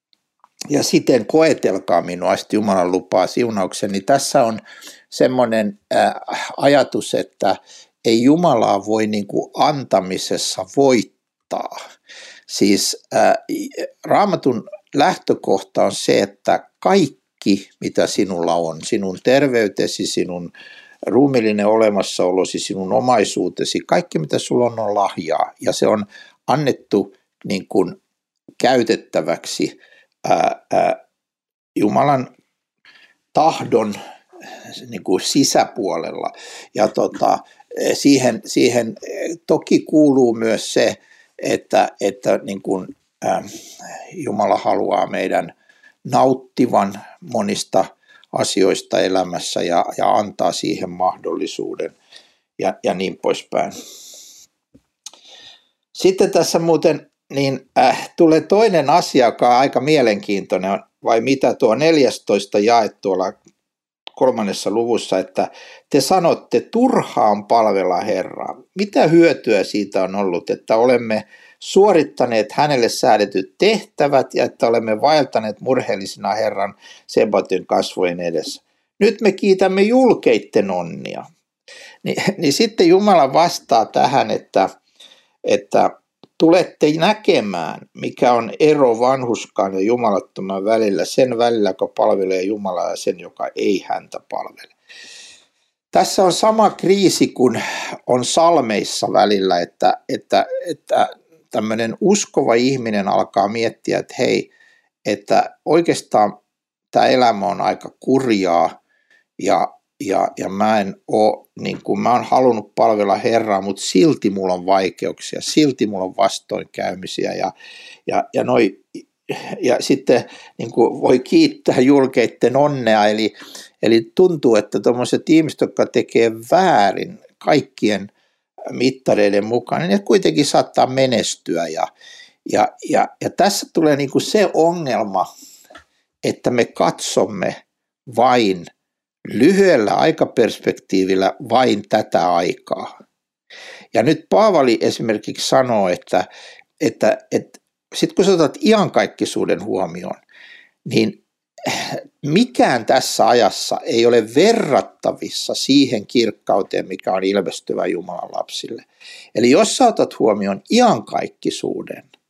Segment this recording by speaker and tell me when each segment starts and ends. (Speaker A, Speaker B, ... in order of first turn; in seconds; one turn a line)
Speaker A: 0.7-11.8
Speaker A: 12.5-20.5
Speaker A: 21.1-28.0
Speaker A: 28.6-31.0
Speaker A: 31.8-32.3
Speaker A: 33.3-34.0
Speaker A: 34.8-43.5
Speaker A: 44.1-45.5
Speaker A: 46.0-52.0
Speaker A: 52.6-53.7
Speaker A: 55.9-63.4
Speaker A: 64.2-81.2
Speaker A: 82.0-84.7
Speaker A: 85.5-94.7
Speaker A: 95.9-104.5
Speaker A: 105.1-106.4
Speaker A: 106.9-108.8
Speaker A: 109.4-117.5
Speaker A: 118.1-128.1
Speaker A: 128.7-131.9
Speaker A: 132.5-135.3
Speaker A: 136.2-137.6
Speaker A: 138.1-138.7
Speaker A: 139.3-142.9
Speaker A: 143.9-146.3
Speaker A: 146.8-150.2
Speaker A: 150.8-162.1